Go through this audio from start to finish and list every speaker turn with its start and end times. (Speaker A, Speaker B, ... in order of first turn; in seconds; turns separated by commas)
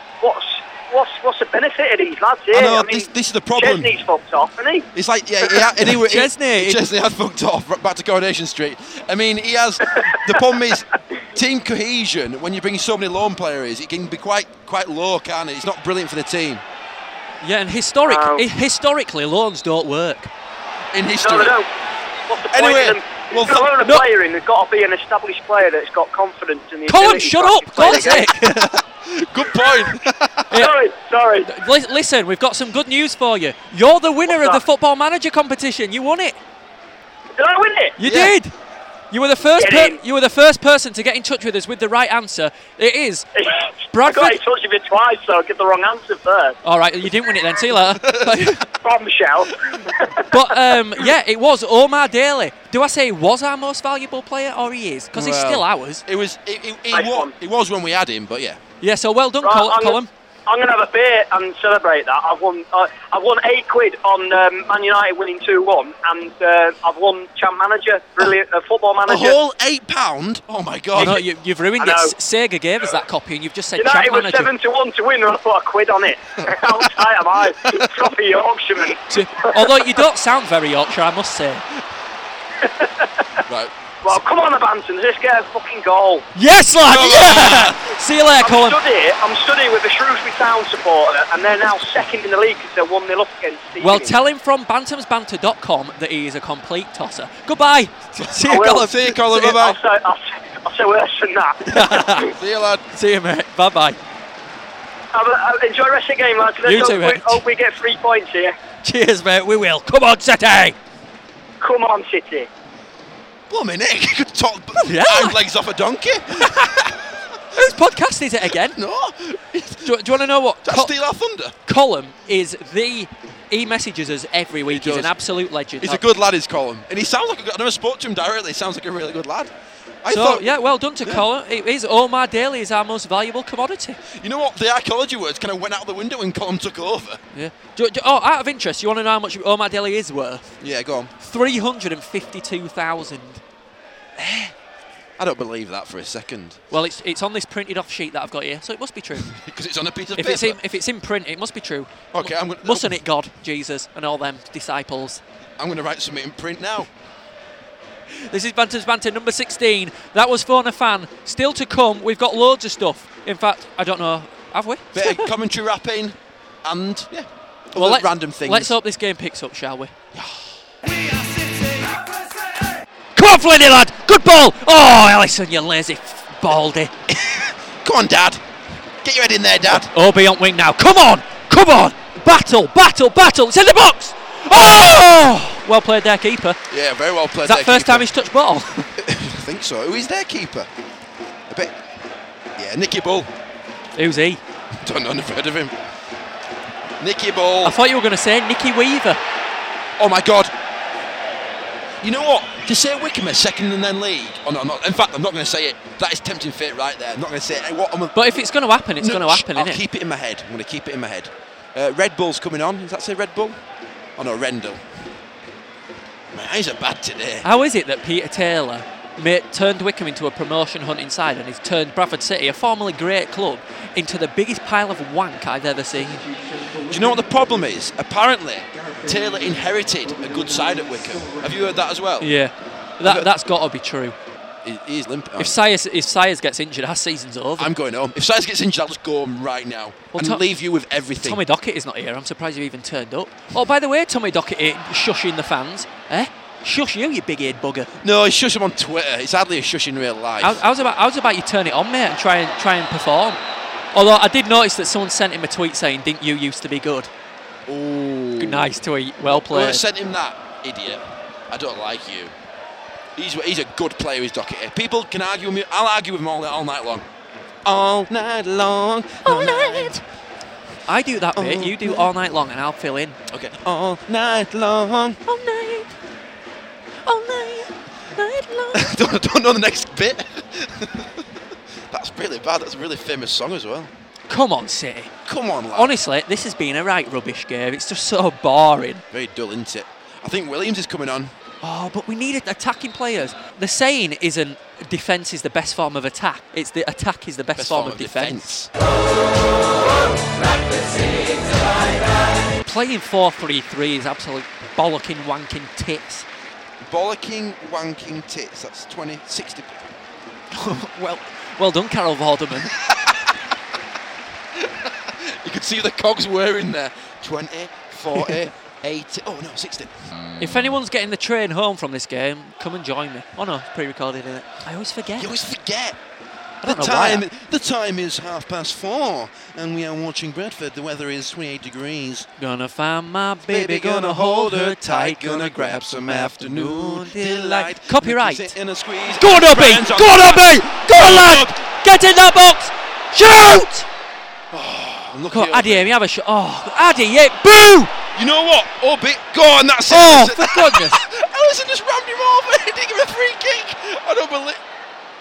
Speaker A: 0.2-4.9, Speaker B: 2.5-3.9, Speaker B: 4.9-16.6, Speaker C: 6.0-6.8, Speaker A: 10.0-10.5, Speaker C: 17.4-20.3, Speaker A: 18.1-18.5, Speaker B: 20.9-21.6, Speaker A: 21.2-21.7, Speaker A: 22.3-28.4, Speaker B: 22.5-23.8, Speaker C: 26.9-28.8, Speaker B: 28.8-30.6, Speaker A: 30.5-31.5, Speaker C: 31.4-36.4, Speaker A: 34.2-34.6, Speaker A: 37.4-38.0, Speaker C: 38.0-38.5, Speaker B: 38.0-38.3, Speaker C: 39.1-43.3, Speaker A: 39.6-40.0, Speaker A: 43.4-46.6, Speaker C: 43.9-44.4, Speaker C: 46.6-48.6, Speaker B: 47.8-48.6, Speaker A: 48.8-50.5, Speaker C: 50.3-56.0, Speaker B: 55.1-58.6, Speaker A: 56.9-57.3, Speaker C: 58.8-60.1, Speaker A: 59.4-69.4, Speaker B: 69.0-71.2, Speaker C: 71.0-74.5, Speaker A: 71.8-72.1, Speaker A: 73.8-80.0, Speaker B: 76.4-76.8, Speaker B: 77.6-78.0, Speaker C: 79.1-81.8, Speaker A: 82.6-83.4, Speaker B: 83.5-83.7, Speaker A: 84.0-86.2, Speaker C: 86.3-88.8, Speaker B: 86.9-87.8, Speaker A: 88.4-94.1, Speaker C: 93.8-99.6, Speaker A: 98.5-98.9, Speaker B: 98.5-99.8, Speaker A: 99.4-102.2, Speaker C: 101.6-102.3, Speaker B: 102.3-102.8, Speaker C: 102.9-104.0, Speaker A: 105.1-108.5, Speaker C: 106.6-107.4, Speaker C: 108.8-110.8, Speaker A: 111.6-112.5, Speaker B: 113.5-117.2, Speaker C: 114.8-115.4, Speaker C: 116.4-116.9, Speaker C: 117.5-118.8, Speaker B: 118.5-120.1, Speaker C: 119.8-120.9, Speaker B: 120.6-121.5, Speaker C: 121.7-126.0, Speaker B: 124.7-125.2, Speaker B: 125.8-129.5, Speaker B: 130.0-131.2, Speaker C: 130.1-134.0, Speaker B: 134.0-137.2, Speaker C: 137.3-140.6, Speaker B: 140.6-141.1, Speaker C: 141.2-143.4, Speaker B: 144.2-144.5, Speaker B: 145.2-146.6, Speaker C: 146.7-149.3, Speaker B: 149.2-150.6, Speaker C: 150.2-155.2, Speaker B: 152.1-152.9, Speaker B: 155.6-156.9, Speaker C: 158.2-165.3, Speaker B: 164.9-168.7, Speaker C: 167.7-169.9, Speaker B: 170.1-170.5, Speaker C: 173.1-176.9, Speaker B: 177.1-178.4, Speaker B: 179.0-179.9, Speaker C: 179.9-186.6, Speaker B: 184.5-184.9, Speaker B: 186.7-188.1, Speaker C: 187.4-188.9, Speaker B: 189.0-190.7, Speaker B: 191.5-191.8, Speaker B: 192.6-193.3, Speaker C: 193.9-194.4, Speaker B: 194.8-195.8, Speaker B: 197.0-197.8, Speaker C: 197.6-199.2, Speaker B: 200.0-200.5, Speaker B: 202.0-208.3, Speaker C: 208.1-209.8, Speaker B: 209.0-213.6, Speaker B: 214.2-214.8, Speaker B: 216.3-217.4, Speaker C: 217.4-226.8, Speaker B: 226.9-232.3, Speaker C: 232.2-234.2, Speaker B: 233.0-233.3, Speaker B: 234.6-235.6, Speaker C: 235.4-237.7, Speaker B: 237.6-241.4, Speaker C: 240.1-240.4, Speaker C: 241.2-247.9, Speaker B: 248.0-250.6, Speaker C: 250.4-253.4, Speaker C: 253.9-257.1, Speaker B: 257.7-258.7, Speaker C: 258.4-259.8, Speaker B: 259.2-262.3, Speaker B: 263.1-267.1, Speaker B: 267.6-270.0, Speaker C: 269.2-270.0, Speaker C: 270.9-273.2, Speaker B: 271.3-272.1, Speaker B: 273.3-275.2, Speaker C: 275.2-275.9, Speaker C: 277.1-278.9, Speaker B: 278.7-281.3, Speaker B: 281.9-283.9, Speaker C: 284.3-285.1, Speaker B: 285.2-285.9, Speaker C: 285.7-289.0, Speaker B: 289.1-291.3, Speaker C: 291.6-298.5, Speaker B: 297.6-298.7, Speaker C: 302.6-306.2, Speaker B: 306.8-309.8, Speaker C: 310.5-312.7, Speaker B: 312.6-313.4, Speaker B: 314.5-320.7, Speaker C: 320.4-325.3, Speaker B: 325.2-326.0, Speaker C: 326.6-327.2, Speaker B: 326.6-332.3, Speaker C: 332.4-338.5, Speaker B: 333.5-341.6, Speaker C: 339.2-343.9, Speaker B: 344.5-345.9, Speaker C: 345.3-347.9, Speaker B: 348.1-354.6, Speaker C: 349.9-351.0